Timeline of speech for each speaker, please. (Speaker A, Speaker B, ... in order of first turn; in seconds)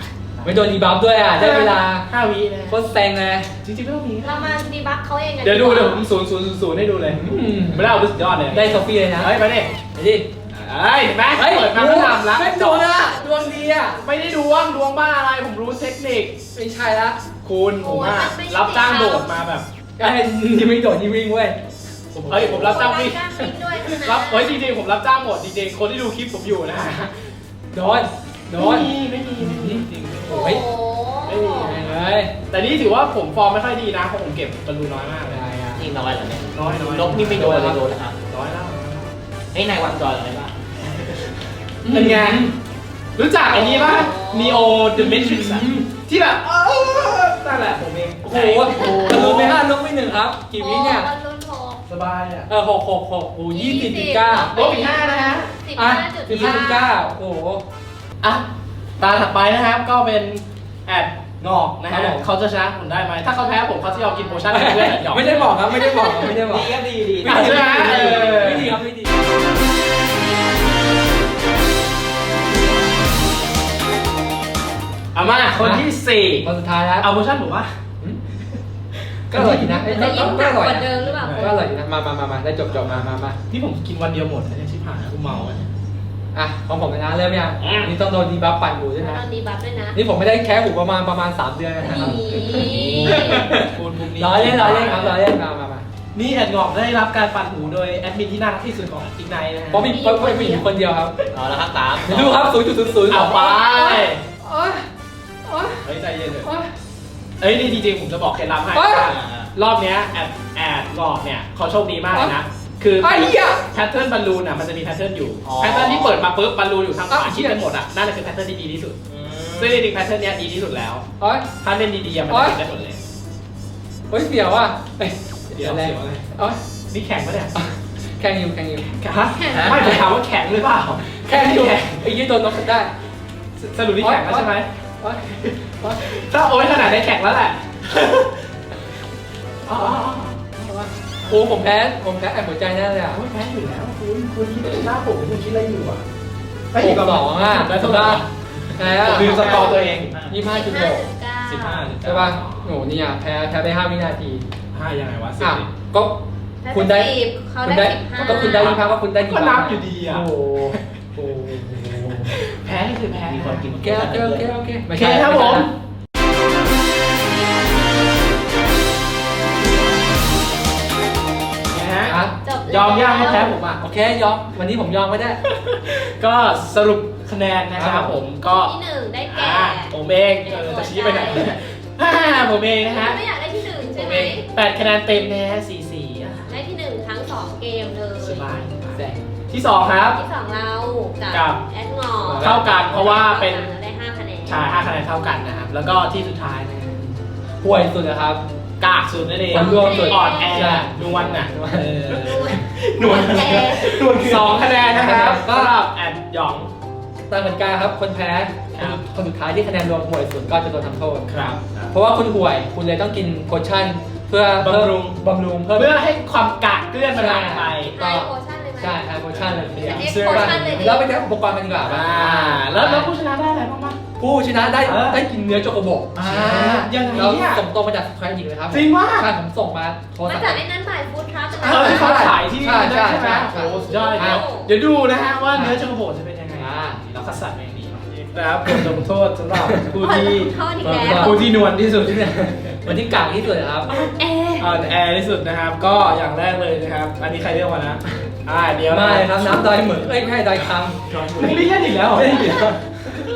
Speaker A: 0.5-2.1, 2.7-3.5, 7.1-8.0, 8.5-9.3, 9.9-10.3, 11.3-14.0, 16.5-17.2, 20.0-21.6, 22.1-22.8, 27.7-30.6, 31.6-32.3, 35.3-35.9, 41.8-42.5, 44.9-45.9, 48.2-51.1, 52.5-54.5, 55.8-57.6, 61.9-62.3, 64.5-69.2, 75.5-75.9, 76.4-77.1, 79.3-83.4, 86.3-89.2, 89.9-95.8, 99.7-101.2, 102.1-104.9, 105.5-105.8, 106.4-106.7, 108.7-109.1, 112.1-112.4, 113.0-113.6, 117.1-117.6, 121.2-121.5, 122.3-122.6, 124.1-126.6, 127.6-128.9, 129.5-130.1, 131.2-132.9, 134.0-136.0, 141.3-143.2, 146.8-148.2, 148.8-149.6, 150.3-151.1, 152.0-154.5, 155.4-162.4, 163.7-165.7, 172.1-172.3, 173.8-175.4, 177.8-178.2, 188.9-189.2, 192.3-193.0, 197.6-198.4, 199.5-202.2, 204.8-205.7, 207.3-211.3, 211.9-215.9, 217.2-218.3, 218.8-223.1, 224.2-230.6, 231.6-234.4, 236.6-237.0, 240.8-241.4, 242.1-243.9, 248.9-252.8
Speaker B: 1.4-2.8, 3.6-4.4, 5.4-7.2, 7.7-9.7, 10.5-12.9, 14.0-16.4, 17.4-19.7, 22.3-23.2, 24.1-27.1, 28.5-30.6, 31.2-32.0, 32.5-35.4, 36.5-39.1, 41.9-42.5, 43.2-49.6, 51.9-52.5, 54.5-55.5, 59.0-66.3, 67.2-68.8, 75.1-76.5, 77.0-77.7, 79.3-80.4, 81.0-81.5, 83.5-85.7, 87.6-87.9, 91.9-95.2, 96.1-99.9, 103.1-104.2, 105.8-106.5, 107.4-119.0, 119.6-121.0, 121.6-123.0, 125.6-126.2, 126.9-127.5, 129.0-132.1, 133.6-134.7, 135.9-138.3, 139.7-141.4, 143.1-146.0, 146.7-150.1, 151.5-152.7, 154.7-155.7, 158.2-160.8, 162.2-163.7, 164.9-165.7, 171.7-173.8, 175.5-178.7, 179.3-183.2, 183.8-186.5, 188.2-190.2, 191.3-191.6, 192.4-193.7, 194.5-197.2, 198.8-201.5, 202.1-206.7, 211.3-211.6, 214.6-215.2, 215.7-217.9, 219.7-221.0, 221.8-224.0, 224.8-225.2, 226.2-227.6, 228.7-229.3, 231.7-243.0, 244.6-250.1, 251.2-252.8
Speaker C: 4.2-6.0, 17.8-19.3, 22.4-24.6, 30.3-31.8, 43.5-44.8, 48.7-49.2, 50.6-51.8, 53.5-57.0, 63.6-64.5, 65.7-66.3, 79.9-81.6, 89.0-90.0, 91.8-93.5, 99.8-100.7, 129.4-129.9, 149.1-149.8, 150.5-151.9, 156.6-158.9, 172.4-173.5, 178.5-181.5, 182.8-184.5, 186.5-188.5, 190.2-194.7, 199.5-200.8, 202.1-203.9, 217.9-219.2, 219.8-221.1, 230.2-232.4, 233.5-234.7, 240.0-241.6, 243.9-244.8
Speaker D: 35.8-38.2, 39.5-41.2, 66.4-68.6, 92.5-93.4, 94.6-95.0, 101.3-102.4, 109.1-109.5, 115.4-116.3, 119.1-119.9, 149.0-150.4, 163.3-164.5, 201.7-202.6, 204.1-204.5, 211.6-211.9, 219.3-220.0